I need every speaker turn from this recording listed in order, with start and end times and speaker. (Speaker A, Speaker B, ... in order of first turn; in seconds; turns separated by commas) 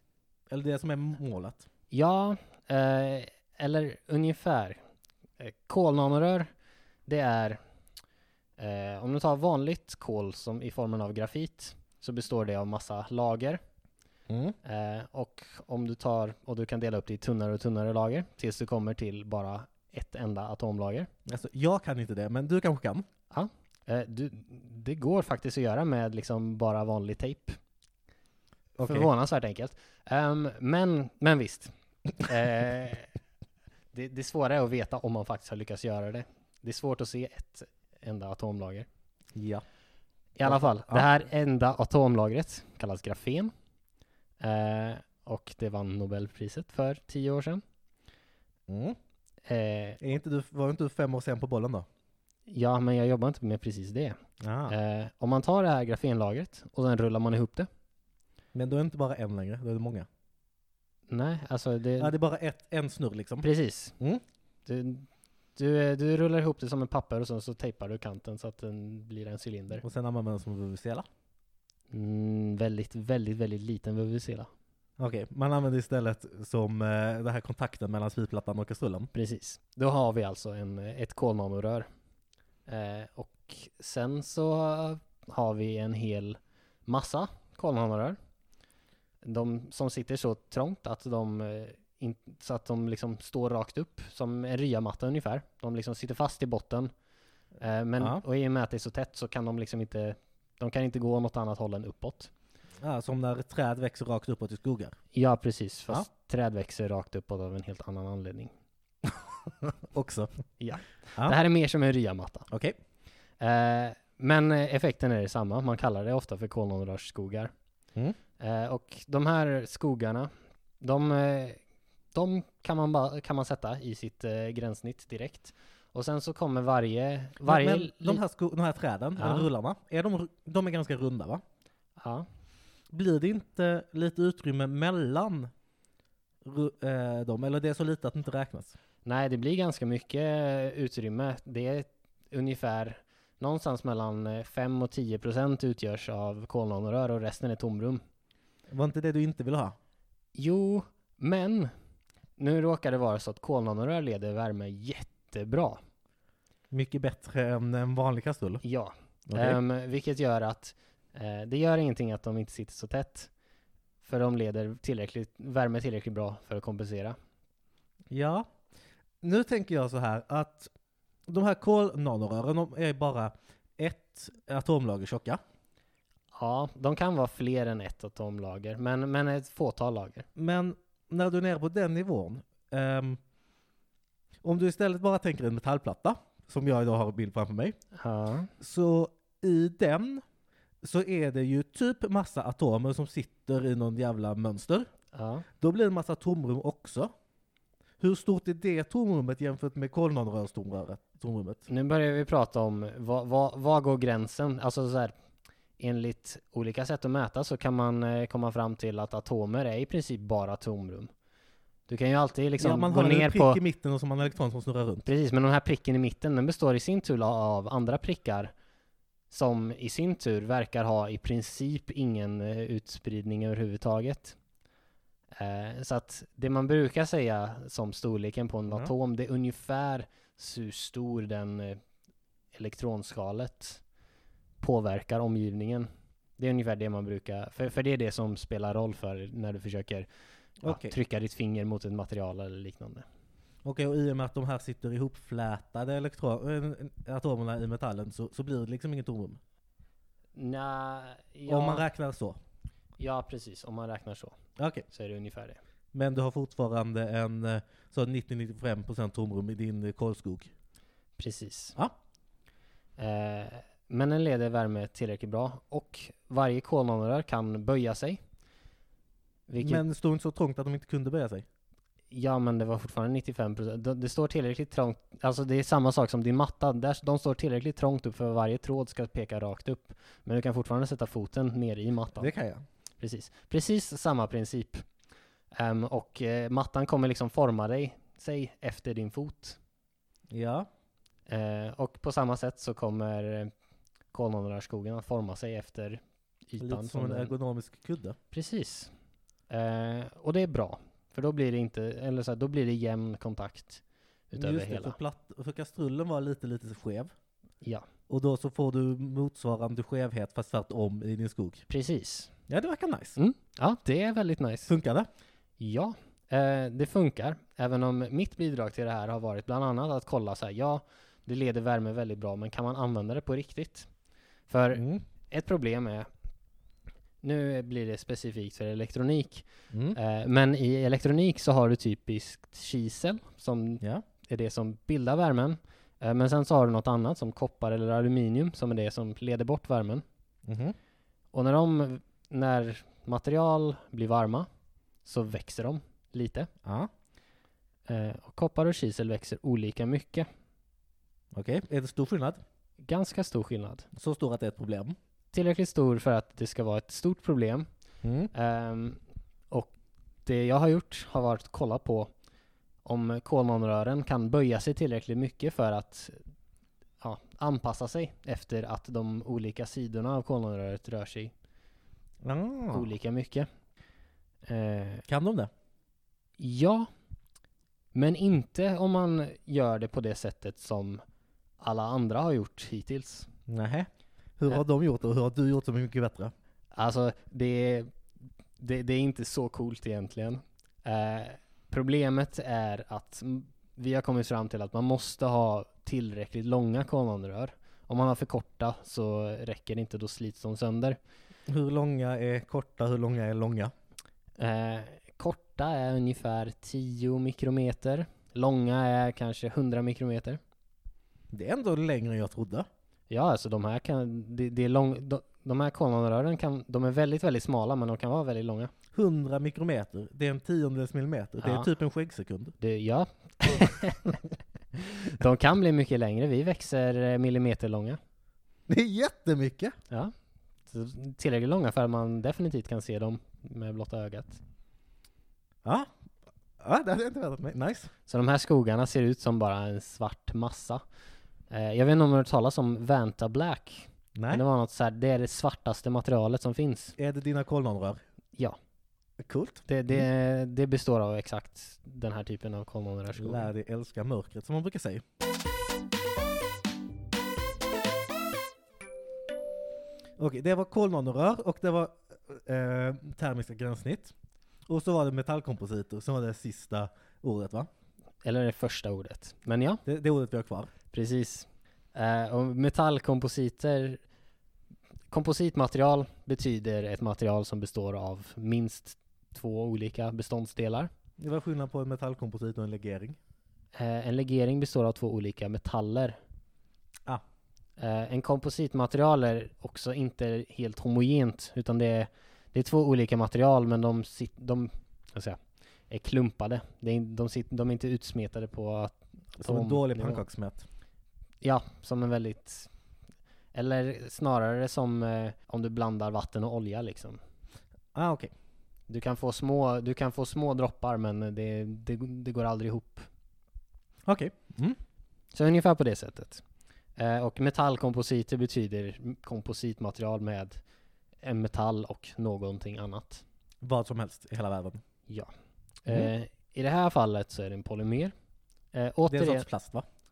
Speaker A: 0.5-1.6, Speaker B: 1.9-4.8, Speaker B: 5.4-6.5, Speaker B: 7.1-7.6, Speaker B: 8.6-13.6, Speaker A: 14.3-14.6, Speaker B: 14.6-21.1, Speaker A: 21.3-23.1, Speaker B: 23.3-27.6, Speaker A: 28.8-29.1, Speaker B: 28.8-33.1, Speaker B: 33.9-38.9, Speaker A: 39.4-39.6, Speaker B: 40.4-43.5, Speaker A: 40.5-41.1, Speaker B: 44.4-47.6, Speaker A: 48.7-49.0, Speaker B: 49.5-50.0, Speaker A: 50.0-51.9, Speaker B: 52.5-57.7, Speaker A: 54.4-54.7, Speaker A: 58.5-60.1, Speaker B: 61.1-62.1, Speaker A: 62.0-63.5, Speaker B: 63.4-64.0, Speaker B: 64.7-69.8, Speaker A: 69.8-71.1, Speaker B: 71.9-74.5, Speaker A: 75.0-79.1, Speaker B: 79.1-81.9, Speaker B: 82.7-88.2, Speaker B: 89.2-96.9, Speaker B: 97.6-102.3, Speaker A: 102.8-105.0, Speaker B: 105.1-108.5, Speaker A: 109.6-110.3, Speaker B: 110.6-112.5, Speaker A: 112.5-112.8, Speaker B: 113.4-117.5, Speaker B: 118.4-121.6, Speaker B: 122.1-128.2, Speaker A: 127.4-131.4, Speaker B: 129.2-129.5, Speaker B: 132.0-132.3, Speaker A: 132.9-135.5, Speaker A: 136.4-138.8, Speaker B: 139.1-148.0, Speaker A: 148.7-149.8, Speaker B: 150.3-151.7, Speaker B: 152.4-155.8, Speaker A: 156.7-158.6, Speaker B: 158.6-163.3, Speaker A: 159.3-159.6, Speaker B: 164.0-167.2, Speaker A: 168.1-168.5, Speaker A: 169.2-170.7, Speaker A: 171.3-175.4, Speaker B: 176.3-180.3, Speaker A: 180.4-183.2, Speaker A: 184.4-187.8, Speaker B: 187.9-188.5, Speaker A: 188.6-190.2, Speaker A: 190.8-194.9, Speaker B: 195.1-195.5, Speaker A: 195.6-197.1, Speaker A: 198.0-201.7, Speaker B: 201.7-205.1, Speaker B: 205.8-211.1, Speaker B: 211.9-213.6, Speaker A: 212.6-215.1, Speaker B: 215.1-218.5, Speaker B: 219.3-224.4, Speaker B: 225.4-231.8, Speaker B: 232.5-233.8, Speaker B: 234.6-240.1, Speaker A: 240.6-240.9, Speaker B: 240.6-243.1, Speaker A: 243.7-249.4, Speaker B: 250.3-251.8, Speaker A: 251.5-252.4, Speaker B: 253.0-255.6, Speaker A: 254.6-254.9, Speaker A: 255.9-260.5, Speaker B: 261.2-261.8, Speaker B: 263.0-268.2, Speaker B: 269.5-269.8, Speaker A: 269.6-271.5, Speaker B: 272.1-282.3, Speaker A: 282.2-282.6, Speaker B: 283.0-284.9, Speaker B: 285.5-289.6, Speaker A: 290.3-290.7, Speaker B: 291.3-293.5, Speaker B: 294.1-297.3, Speaker A: 296.6-298.2, Speaker B: 298.3-298.9, Speaker B: 299.5-305.0, Speaker A: 304.4-307.1, Speaker A: 308.1-311.6, Speaker B: 311.7-312.3, Speaker A: 312.5-313.2, Speaker B: 313.2-314.7, Speaker A: 314.7-315.1, Speaker B: 315.6-323.9, Speaker B: 324.5-326.1, Speaker A: 324.7-325.0, Speaker B: 327.2-340.0, Speaker A: 329.7-330.0, Speaker A: 340.5-340.8, Speaker B: 341.3-344.5, Speaker B: 345.1-346.5, Speaker A: 346.6-346.9, Speaker B: 347.9-350.3, Speaker A: 351.3-352.4, Speaker B: 352.8-353.9, Speaker A: 353.9-355.0, Speaker B: 355.3-357.7, Speaker A: 358.0-358.3, Speaker B: 358.3-359.0, Speaker B: 360.3-362.1, Speaker B: 362.9-366.2, Speaker B: 367.0-371.3, Speaker A: 372.2-372.9, Speaker B: 372.7-373.5, Speaker B: 374.5-375.1, Speaker A: 375.1-375.5, Speaker B: 376.4-376.9, Speaker B: 377.9-381.0, Speaker B: 381.6-383.3, Speaker A: 383.5-386.3, Speaker B: 386.7-387.9, Speaker B: 388.6-401.0, Speaker A: 401.5-403.7, Speaker B: 404.4-410.4, Speaker A: 411.3-412.7, Speaker B: 413.1-418.7, Speaker A: 418.9-422.6, Speaker B: 421.4-421.7, Speaker B: 422.6-428.0, Speaker A: 428.7-429.8, Speaker B: 430.7-434.4, Speaker A: 435.6-435.9, Speaker A: 436.6-437.9, Speaker B: 438.1-440.8, Speaker B: 441.5-446.9, Speaker A: 444.2-444.4, Speaker A: 447.0-448.0, Speaker A: 449.2-450.1, Speaker B: 449.7-453.5, Speaker A: 453.1-455.0, Speaker A: 460.2-464.1, Speaker A: 464.7-467.7, Speaker B: 468.2-469.8, Speaker A: 469.9-470.7, Speaker B: 470.9-474.0, Speaker B: 475.1-480.9, Speaker A: 481.2-483.2, Speaker B: 483.8-486.2, Speaker B: 487.8-495.4, Speaker B: 495.9-500.2, Speaker A: 499.4-500.7, Speaker B: 501.4-502.7, Speaker B: 503.5-507.2, Speaker A: 507.9-508.3, Speaker B: 508.9-513.1, Speaker A: 514.1-514.8, Speaker B: 515.3-516.4, Speaker B: 517.0-520.6, Speaker B: 521.2-523.2, Speaker A: 523.6-524.8, Speaker B: 525.8-528.1, Speaker B: 528.7-529.5, Speaker A: 529.1-529.9